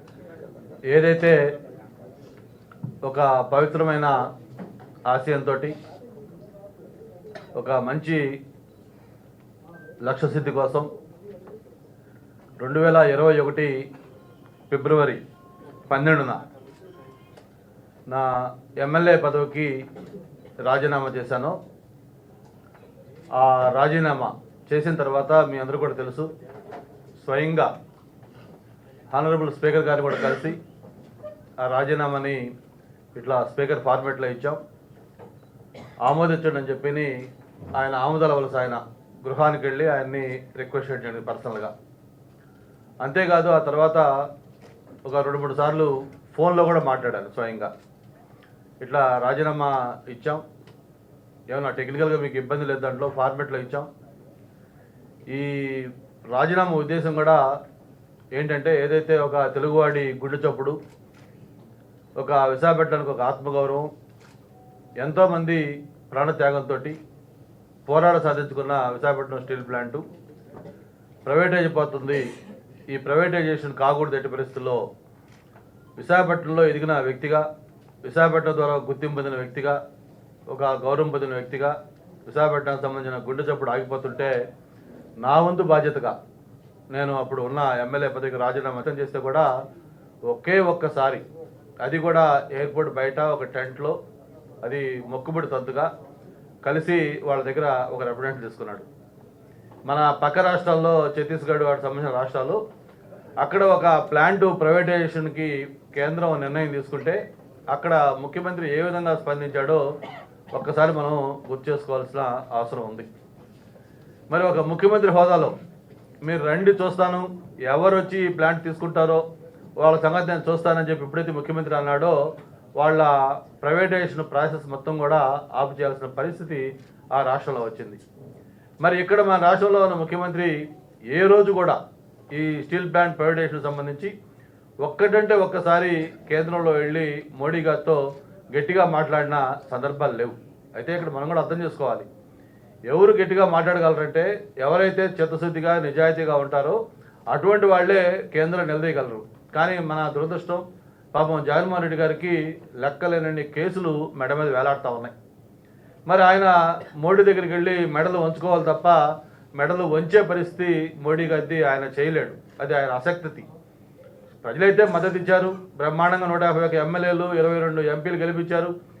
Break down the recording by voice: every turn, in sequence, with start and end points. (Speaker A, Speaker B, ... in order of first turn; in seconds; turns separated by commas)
Speaker A: 0.9-1.4, Speaker A: 3.0-4.1, Speaker A: 5.1-5.7, Speaker A: 7.6-8.2, Speaker A: 10.1-10.9, Speaker A: 12.6-13.7, Speaker A: 14.7-15.2, Speaker A: 15.9-16.4, Speaker A: 18.1-19.7, Speaker A: 20.6-21.6, Speaker A: 23.3-26.3, Speaker A: 27.2-27.7, Speaker A: 29.1-30.6, Speaker A: 31.6-32.4, Speaker A: 33.1-34.6, Speaker A: 36.0-37.1, Speaker A: 37.7-41.7, Speaker A: 43.0-44.1, Speaker A: 45.0-47.7, Speaker A: 48.8-50.4, Speaker A: 51.5-53.9, Speaker A: 55.3-57.4, Speaker A: 58.3-60.8, Speaker A: 62.2-63.9, Speaker A: 65.0-67.0, Speaker A: 67.8-70.0, Speaker A: 71.2-72.3, Speaker A: 72.9-74.8, Speaker A: 76.0-77.4, Speaker A: 78.0-79.8, Speaker A: 80.5-81.8, Speaker A: 82.3-84.3, Speaker A: 85.2-86.1, Speaker A: 86.9-89.5, Speaker A: 90.3-91.2, Speaker A: 91.8-94.0, Speaker A: 94.6-95.9, Speaker A: 96.6-98.8, Speaker A: 99.9-102.6, Speaker A: 103.4-107.2, Speaker A: 107.7-109.8, Speaker A: 110.5-113.1, Speaker A: 114.3-115.5, Speaker A: 116.2-119.2, Speaker A: 119.8-122.2, Speaker A: 122.8-128.0, Speaker A: 128.8-130.5, Speaker A: 131.1-131.8, Speaker A: 132.3-134.1, Speaker A: 134.8-138.0, Speaker A: 138.5-142.1, Speaker A: 142.9-146.8, Speaker A: 147.3-155.1, Speaker A: 156.1-159.0, Speaker A: 159.6-163.4, Speaker A: 164.4-168.7